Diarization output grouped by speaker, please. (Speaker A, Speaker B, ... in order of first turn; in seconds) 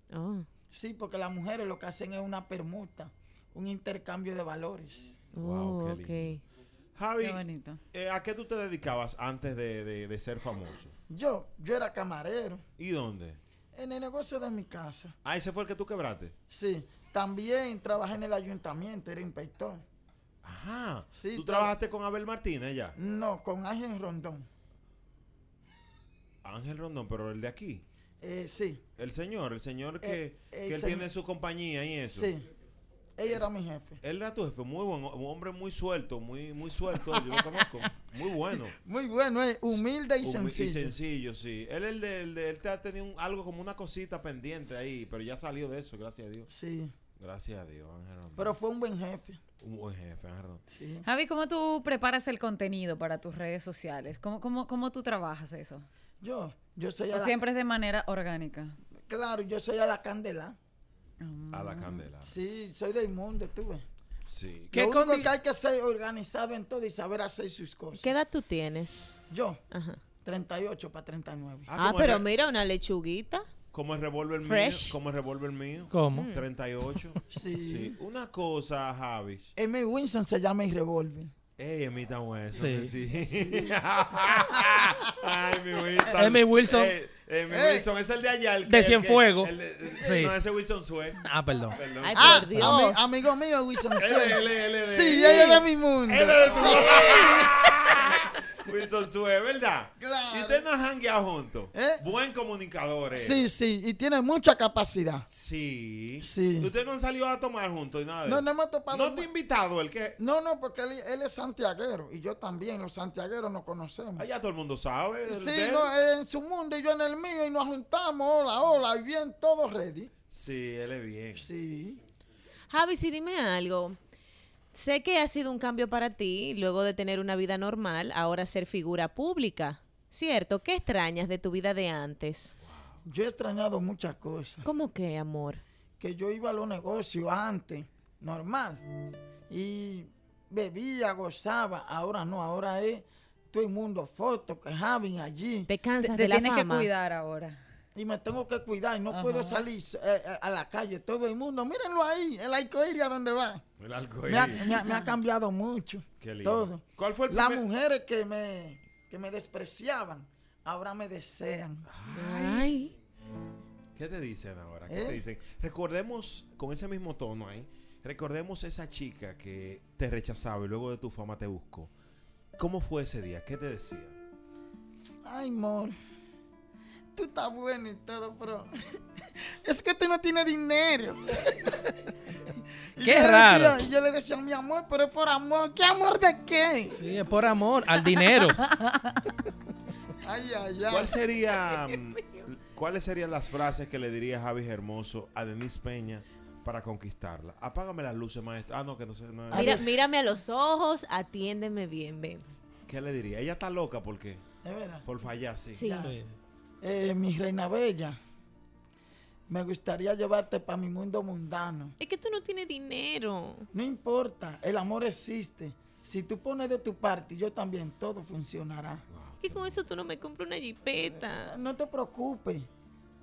Speaker A: 0.1-0.5, 5.3-6.4, 68.0-69.1, 69.7-70.0, 71.8-73.5, 74.4-75.0, 76.1-76.5, 92.0-93.1, 122.7-124.0, 124.7-132.6, 134.6-135.6, 145.7-146.9, 162.1-162.9, 191.7-191.9, 199.5-202.5, 205.8-206.1, 212.0-213.7, 219.4-221.6
Speaker B: 0.7-5.2, 11.1-12.6, 13.8-15.2, 16.5-19.8, 21.1-21.7, 23.0-24.5, 28.2-28.8, 30.0-31.1, 32.1-32.5, 33.2-34.0, 38.7-41.0, 46.5-46.9, 48.4-49.4, 50.7-51.1, 56.2-57.4, 59.1-60.6, 62.2-63.9, 64.8-68.1, 69.3-69.6, 70.2-71.7, 77.3-78.0, 79.6-81.3, 83.3-83.7, 87.5-87.9, 92.2-97.6, 100.0-100.7, 101.7-102.0, 103.1-105.3, 106.2-106.7, 108.2-109.3, 110.2-114.3, 115.3-120.1, 121.4-122.0, 133.1-134.7, 136.0-138.8, 139.5-145.7, 147.9-153.6, 154.3-161.9, 164.9-165.2, 175.2-175.9, 177.1-178.7, 179.6-181.5, 183.0-187.0, 190.2-191.1, 199.5-199.8, 204.6-205.1, 205.8-206.1, 206.8-208.2, 209.5-211.9, 213.7-219.0, 221.1-222.7
Speaker C: 5.4-6.4, 7.0-10.9, 12.8-13.4, 15.2-16.4, 20.4-22.9, 26.4-27.9, 29.0-32.3, 34.0-38.8, 39.7-46.5, 47.2-48.6, 49.6-50.6, 61.5-62.3, 64.3-64.8, 71.7-72.3, 73.7-79.5, 81.6-91.2, 91.7-92.7, 94.0-103.4, 105.3-110.2, 114.2-115.9, 120.3-121.5, 132.6-133.0, 153.8-154.7, 156.2-157.7, 161.9-162.7, 164.0-171.9, 172.6-174.2, 190.9-199.9, 202.9-204.4, 205.1-206.0, 219.1-219.8
Speaker D: 7.2-7.8, 51.0-55.9, 57.1-58.8, 61.2-62.1, 146.0-147.6, 149.1-149.7, 154.6-155.1
Speaker E: 64.7-65.3, 75.9-76.3, 82.5-82.9, 86.2-86.9, 88.7-90.3, 91.2-91.8, 183.0-183.8, 186.9-188.7, 206.0-206.4